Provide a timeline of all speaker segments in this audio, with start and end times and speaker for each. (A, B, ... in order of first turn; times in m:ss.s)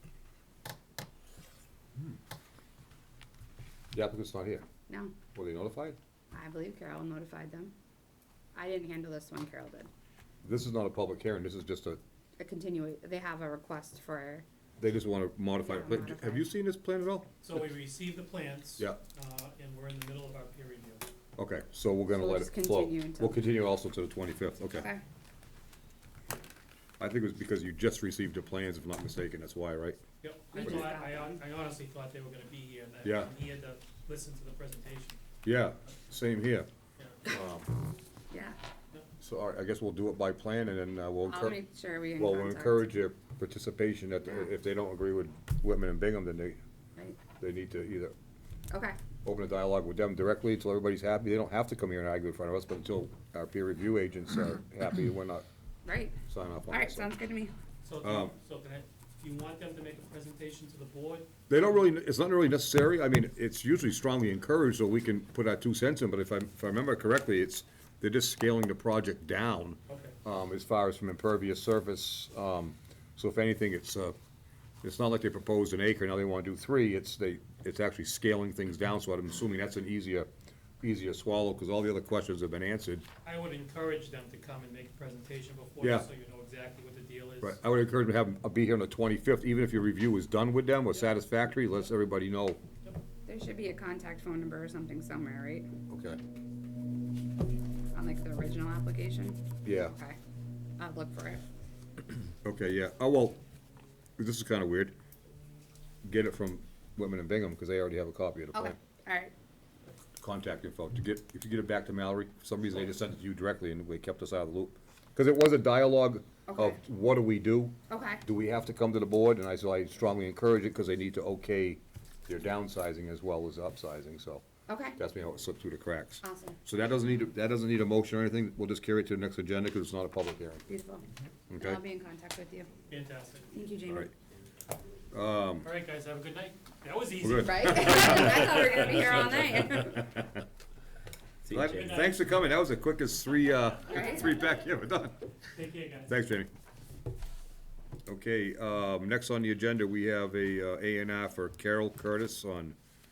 0:03.9-0:04.6 A
0:04.9-0:05.1 B
0:05.3-0:06.0 A
0:06.3-0:07.7 B
0:08.5-0:09.9 B
0:10.4-0:12.0 A
0:12.4-0:14.4 B
0:14.8-0:17.3 A
0:15.6-0:16.4 B
0:17.4-0:21.1 C
0:21.4-0:24.9 A
0:22.1-0:23.4 B
0:24.6-0:25.0 B
0:27.0-0:30.0 A
0:30.2-0:35.2 C
0:30.5-0:31.4 B
0:30.6-0:30.9 A
0:33.0-0:33.3 A
0:35.4-0:36.7 A
0:37.0-0:37.2 C
0:37.2-0:37.7 A
0:38.3-0:38.6 B
0:39.2-0:41.6 A
0:41.2-0:42.9 B
0:42.2-0:46.6 A
0:47.4-0:48.1 A
0:48.7-0:49.0 B
0:49.2-0:55.4 A
0:55.8-0:56.2 B
0:56.2-0:57.1 A
0:56.7-0:57.5 B
0:57.8-1:01.3 C
0:58.0-0:58.3 A
1:01.5-1:14.2 A
1:09.9-1:10.2 C
1:14.8-1:20.3 A
1:20.8-1:23.0 A
1:23.2-1:27.6 C
1:25.8-1:26.1 A
1:27.4-1:32.6 A
1:33.2-1:35.7 B
1:35.9-1:36.2 A
1:37.9-1:40.2 B
1:39.6-1:39.9 A
1:40.8-1:41.4 B
1:42.4-1:43.4 A
1:44.2-1:45.0 A
1:46.0-1:48.8 A
1:48.5-1:49.3 B
1:50.2-2:04.4 A
1:56.5-1:56.8 B
1:57.9-1:58.2 B
2:04.7-2:05.0 B
2:04.9-2:10.6 A
2:06.2-2:06.6 B
2:10.7-2:11.0 B
2:11.5-2:11.8 A
2:11.6-2:12.7 B
2:12.9-2:13.5 C
2:13.5-2:14.1 B
2:15.1-2:15.7 A
2:15.6-2:18.6 C
2:17.2-2:20.4 A
2:17.4-2:20.1 B
2:21.5-2:25.3 A
2:21.6-2:22.3 C
2:23.9-2:24.3 B
2:25.5-2:26.2 C
2:26.1-2:26.5 A
2:28.0-2:32.8 A